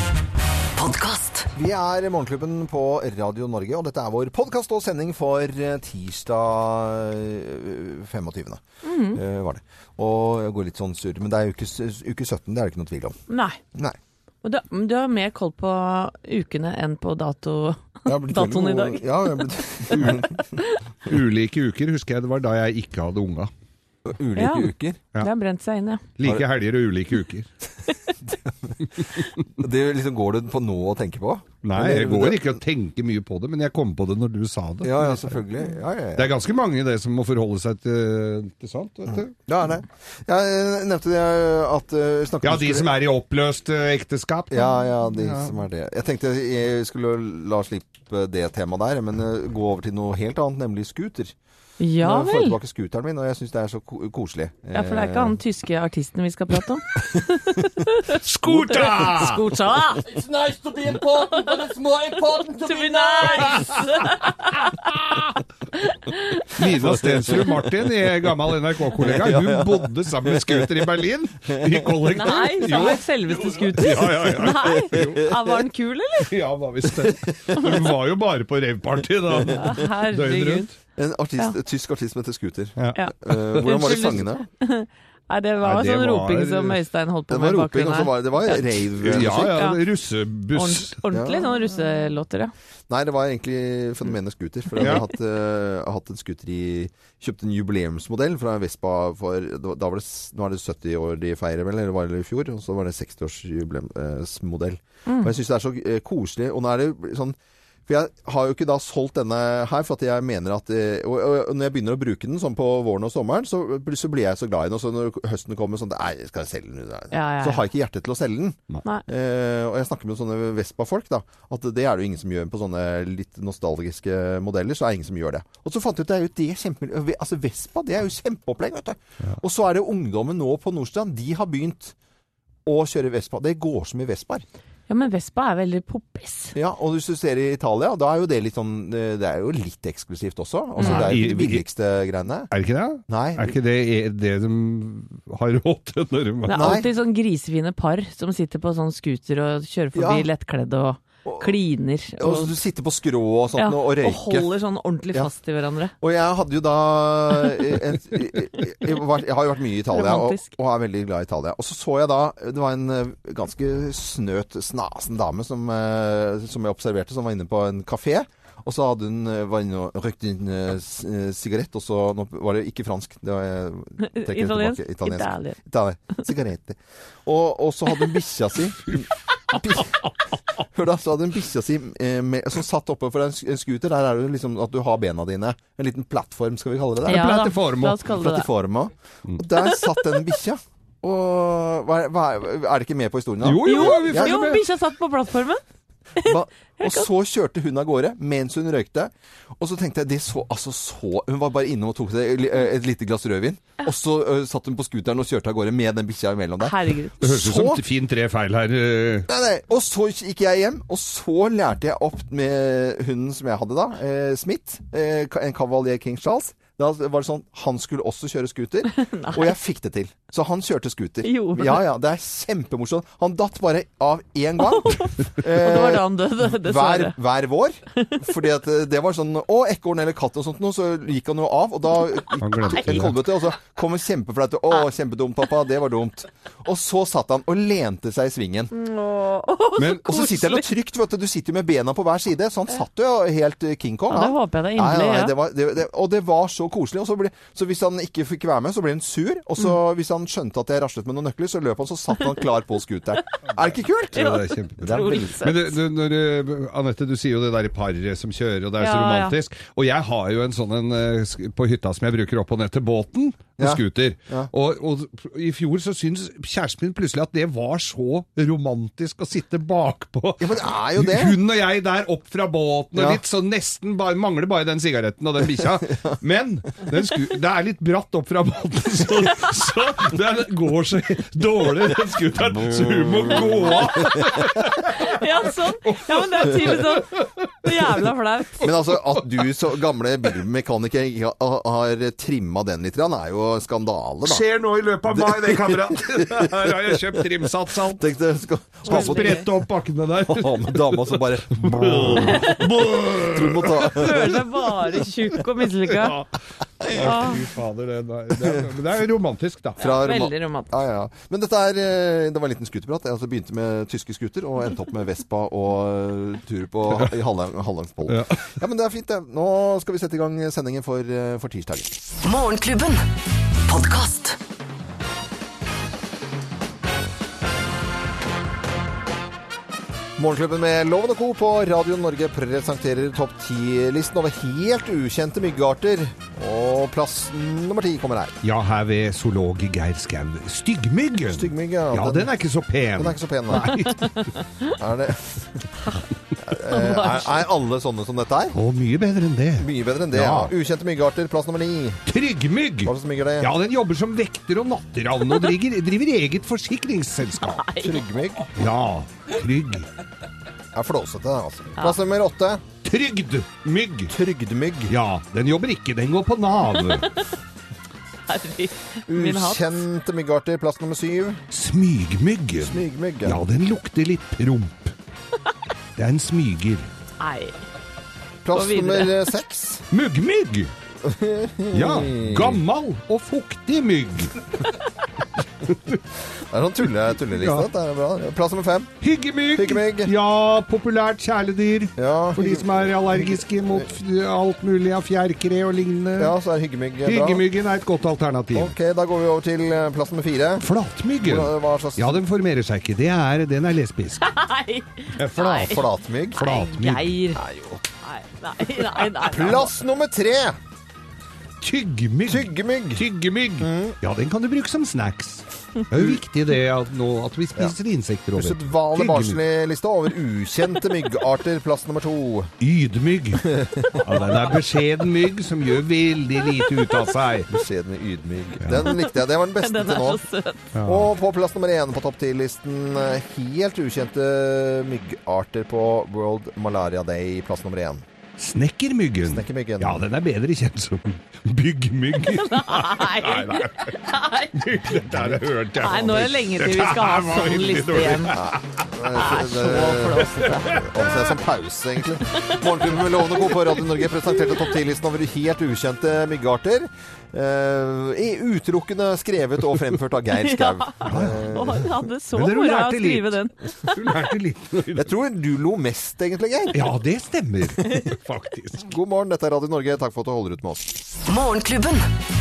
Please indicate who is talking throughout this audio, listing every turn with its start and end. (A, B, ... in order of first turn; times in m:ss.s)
0:00.8-0:01.5 A
0:01.6-0:13.2 B
0:08.8-0:09.2 C
0:13.3-0:13.6 C
0:14.4-0:20.8 C
0:18.1-0:20.4 B
0:19.9-0:20.2 D
0:21.1-0:23.5 D
0:24.0-0:25.0 B
0:24.4-0:26.0 C
0:26.2-0:27.5 D
0:28.2-0:28.9 B
0:29.6-0:32.6 B
0:31.6-0:35.3 D
0:34.8-0:36.4 B
0:36.2-0:39.3 D
0:39.1-0:42.9 B
0:42.4-0:45.5 D
0:44.5-0:51.4 B
0:51.8-0:52.6 C
0:52.0-0:55.4 B
0:54.7-1:00.0 C
0:58.1-0:59.4 D
1:00.0-1:03.9 E
1:02.6-1:04.8 C
1:04.8-1:05.2 D
1:06.1-1:06.6 C
1:06.5-1:13.2 D
1:06.8-1:07.5 B
1:09.0-1:11.0 B
1:12.1-1:16.3 C
1:13.7-1:15.3 D
1:16.3-1:20.8 D
1:16.9-1:17.8 B
1:19.3-1:19.7 B
1:19.6-1:20.7 C
1:21.0-1:24.5 B
1:22.8-1:23.7 D
1:23.0-1:28.6 C
1:25.6-1:26.8 D
1:27.3-1:29.6 B
1:29.0-1:31.0 D
1:29.6-1:29.8 C
1:30.5-1:32.5 C
1:31.1-1:31.5 B
1:32.9-1:47.4 B
1:45.1-1:45.3 C
1:47.9-2:12.0 B
1:57.1-1:57.6 C
2:12.7-2:14.4 B
2:14.9-2:16.6 C
2:16.6-2:22.5 B
2:20.8-2:21.1 C
2:20.8-2:21.6 D
2:22.5-2:26.8 D
2:23.1-2:23.6 B
2:26.4-2:32.5 C
2:26.5-2:26.9 B
2:30.0-2:30.3 B
2:31.2-2:31.5 B
2:32.2-2:34.5 B
2:33.6-2:35.9 C
2:36.0-3:00.1 B
2:39.9-2:40.5 C
2:54.0-2:55.6 C
3:00.7-3:07.4 B
3:07.1-3:08.5 C
3:07.1-3:08.0 D
3:08.1-3:14.4 B
3:09.6-3:10.2 C
3:13.4-3:14.6 D
3:13.6-3:15.6 C
3:16.2-3:17.1 C
3:16.2-3:27.8 B
3:26.6-3:27.2 C
3:27.2-3:29.3 D
3:29.3-3:58.7 B
3:38.9-3:39.6 C
3:41.2-3:41.9 C
3:44.6-3:47.2 C
3:48.0-3:48.2 C
3:52.4-3:53.2 D
3:52.6-3:53.0 C
3:58.7-4:00.7 C
3:59.9-4:15.2 B
4:04.1-4:05.4 C
4:14.1-4:15.8 C
4:14.1-4:45.2 D
4:18.8-4:19.4 C
4:23.6-4:24.5 B
4:30.4-4:31.4 B
4:33.0-4:33.2 B
4:42.5-4:44.7 B
4:44.9-4:48.7 C
4:45.8-4:48.0 D
4:48.6-4:54.4 B
4:54.2-4:58.0 D
4:55.1-4:59.4 B
4:58.9-4:59.4 C
4:58.9-5:04.2 D
5:00.3-5:04.5 B
5:02.2-5:02.6 C
5:03.7-5:06.2 C
5:05.9-5:06.3 D
5:06.8-5:09.9 D
5:06.9-5:07.2 B
5:07.0-5:07.4 C
5:08.4-5:08.7 B
5:09.8-5:10.8 C
5:09.8-5:22.1 B
5:18.1-5:18.5 D
5:22.2-5:23.0 A
5:23.6-5:24.4 A
5:30.2-5:38.4 B
5:38.4-5:44.3 D
5:41.3-5:42.3 B
5:43.0-5:43.8 B
5:44.8-5:45.6 B
5:46.4-5:48.6 B
5:46.7-5:47.4 C
5:48.5-5:50.5 D
5:49.6-5:52.0 B
5:52.1-5:57.6 D
5:52.8-5:53.5 B
5:57.5-5:58.0 C
5:57.8-5:58.5 B
5:58.6-5:59.9 D
6:00.7-6:02.6 B
6:02.8-6:04.1 D
6:04.1-6:04.9 B
6:04.9-6:07.1 D
6:06.8-6:07.2 C
6:08.3-6:09.8 C
6:09.1-6:11.4 B
6:11.5-6:14.9 D
6:12.6-6:13.4 B
6:16.0-6:16.9 D
6:17.2-6:17.6 C
6:18.4-6:19.9 B
6:18.5-6:19.3 C
6:19.9-6:20.7 D
6:21.0-6:22.6 B
6:21.7-6:24.6 D
6:25.6-6:26.0 D
6:26.4-6:29.0 B
6:27.4-6:27.7 D
6:29.0-6:36.3 D
6:29.5-6:30.1 B
6:32.0-6:33.9 B
6:36.2-6:37.4 B
6:37.0-6:38.8 D
6:38.5-6:40.7 B
6:40.6-6:44.2 D
6:41.2-6:42.2 B
6:44.2-6:47.4 C
6:45.2-6:45.8 D
6:45.6-6:46.5 B
6:46.4-6:47.2 D
6:47.4-6:47.8 B
6:48.0-6:49.7 C
6:49.2-6:50.6 B
6:51.6-6:59.4 D
6:52.3-6:53.1 B
6:53.6-6:54.0 B
6:55.9-6:56.2 B
6:58.4-7:02.5 B
7:02.6-7:07.5 D
7:03.4-7:04.0 B
7:06.6-7:06.9 C
7:07.5-7:10.2 B
7:08.6-7:08.9 D
7:08.8-7:10.7 C
7:10.7-7:11.1 D
7:10.8-7:18.0 B
7:18.4-7:24.0 D
7:19.2-7:20.0 B
7:22.3-7:24.6 C
7:24.6-7:28.6 D
7:25.8-7:28.4 C
7:28.3-7:41.9 B
7:29.1-7:30.8 C
7:30.7-7:31.2 D
7:40.4-7:44.1 C
7:41.1-7:41.5 D
7:42.3-7:45.1 D
7:44.9-7:46.8 B
7:46.7-7:48.9 D
7:48.8-7:51.0 B
7:51.3-7:52.1 A